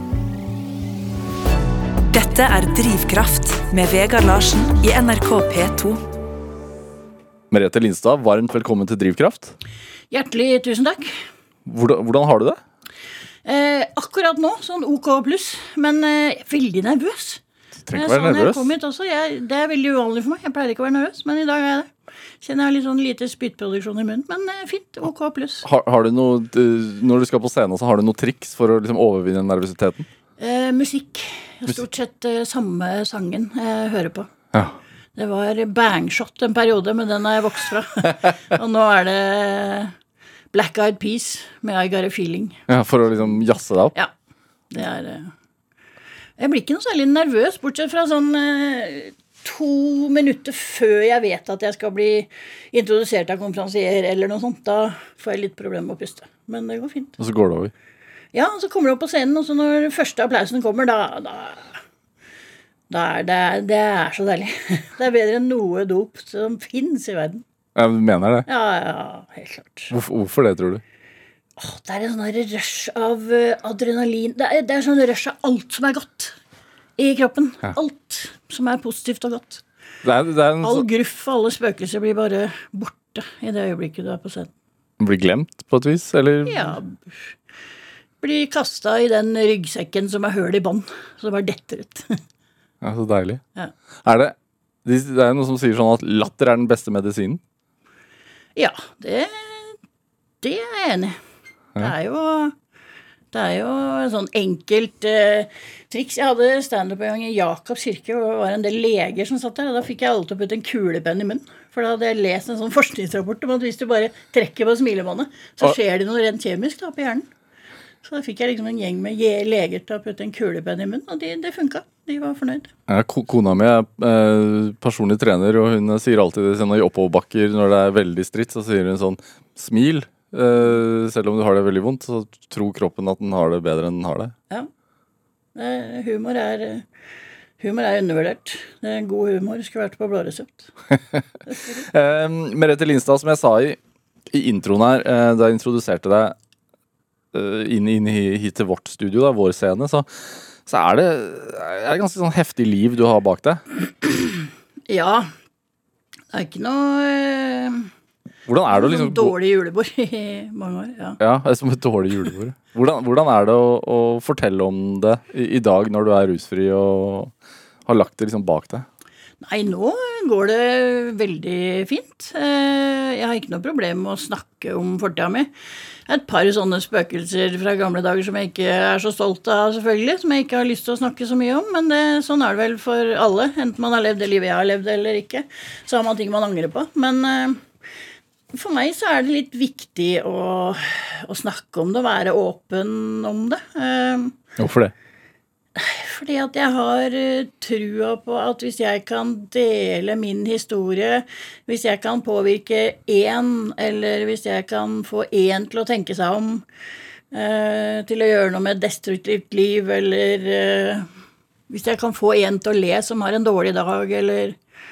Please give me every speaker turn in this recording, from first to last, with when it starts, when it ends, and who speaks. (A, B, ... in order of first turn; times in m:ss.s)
0:02.1-0:06.0 A
0:07.5-0:09.6 B
0:10.1-0:11.2 C
0:11.6-0:12.6 B
0:13.4-0:21.9 C
0:17.8-0:18.7 B
0:22.4-0:25.6 C
0:25.6-0:30.1 B
0:30.4-0:34.3 C
0:34.5-0:34.8 B
0:35.2-0:39.9 C
0:40.5-0:42.7 C
0:42.7-0:43.9 B
0:44.7-0:45.3 C
0:46.4-0:57.2 C
0:57.2-0:57.7 B
0:58.3-1:01.8 C
1:02.9-1:07.4 C
1:07.7-1:08.4 B
1:08.5-1:09.9 C
1:09.9-1:10.8 B
1:11.6-1:16.4 C
1:17.0-1:19.6 C
1:20.0-1:20.8 B
1:20.6-1:24.5 C
1:25.0-1:26.8 B
1:26.4-1:27.3 C
1:28.2-1:32.2 C
1:32.8-1:33.4 B
1:34.0-1:37.4 B
1:38.6-1:39.8 C
1:40.4-1:41.2 C
1:41.8-1:42.5 C
1:43.3-1:57.2 C
1:58.0-2:02.7 C
2:02.9-2:14.3 B
2:15.5-2:16.8 C
2:17.6-2:20.7 C
2:21.5-2:21.8 C
2:21.8-2:23.8 B
2:24.3-2:26.4 B
2:27.3-2:33.6 B
2:34.0-2:35.3 C
2:36.3-2:37.9 C
2:38.5-2:39.3 B
2:38.7-2:41.2 C
2:41.2-2:47.3 B
2:47.8-2:48.8 B
2:49.4-2:55.5 C
2:56.1-3:07.6 C
3:08.5-3:14.4 C
3:14.6-3:14.9 B
3:15.8-3:26.6 C
3:27.3-3:31.1 C
3:31.7-3:34.6 C